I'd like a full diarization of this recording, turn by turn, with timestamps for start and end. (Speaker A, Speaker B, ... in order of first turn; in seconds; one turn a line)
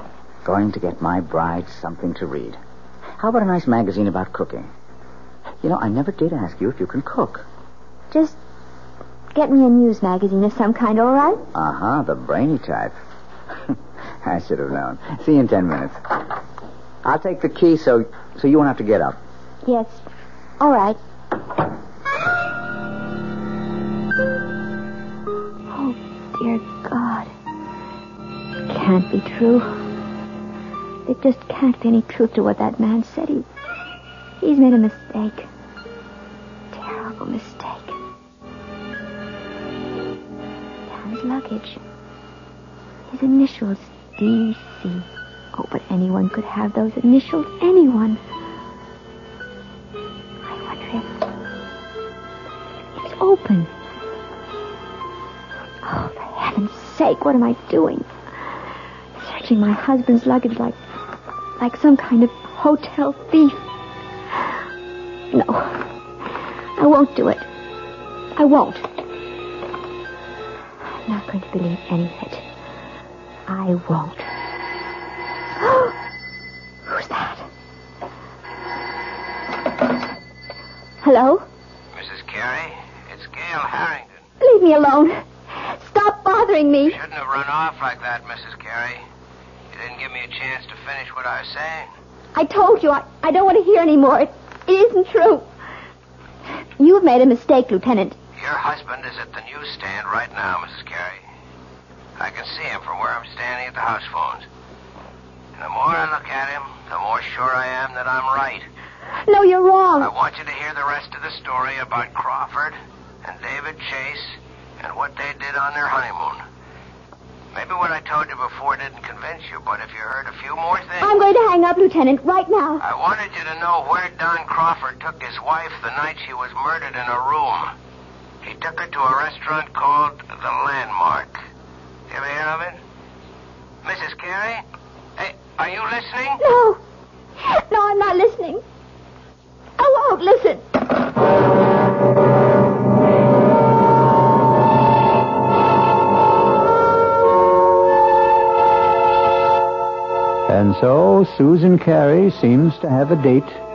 Speaker A: 0.4-2.6
Speaker A: 3.2-4.7
Speaker A: 5.6-7.5
Speaker B: 8.1-8.4
Speaker B: 9.3-11.4
Speaker A: 11.5-13.0
Speaker A: 13.7-16.1
Speaker A: 17.0-19.2
Speaker B: 19.6-20.1
Speaker B: 20.6-21.0
Speaker B: 25.7-27.3
Speaker B: 28.7-29.7
Speaker B: 31.1-33.5
Speaker B: 34.4-35.5
Speaker B: 36.7-38.0
Speaker B: 40.9-41.8
Speaker B: 43.1-48.2
Speaker B: 50.5-51.3
Speaker B: 53.0-53.7
Speaker B: 55.8-58.1
Speaker B: 59.2-60.8
Speaker B: 61.6-63.6
Speaker B: 65.3-65.9
Speaker B: 66.8-67.5
Speaker B: 68.4-68.8
Speaker B: 71.1-72.4
Speaker B: 73.5-74.3
Speaker B: 75.6-76.0
Speaker B: 76.9-77.5
Speaker B: 81.0-81.5
Speaker C: 82.0-84.1
Speaker B: 84.4-85.2
Speaker B: 85.8-87.0
Speaker C: 86.9-89.0
Speaker C: 89.7-91.9
Speaker B: 92.3-95.5
Speaker B: 96.8-98.2
Speaker C: 98.4-101.2
Speaker C: 102.2-104.5
Speaker C: 105.6-108.7
Speaker B: 109.3-110.1
Speaker C: 110.0-116.4
Speaker C: 117.5-121.2
Speaker B: 121.0-122.8
Speaker C: 122.8-127.7
Speaker C: 128.4-131.4
Speaker C: 132.1-132.8
Speaker C: 133.8-134.6
Speaker C: 135.2-136.4
Speaker B: 136.4-136.8
Speaker B: 137.4-138.6
Speaker B: 139.8-140.6
Speaker D: 150.5-153.6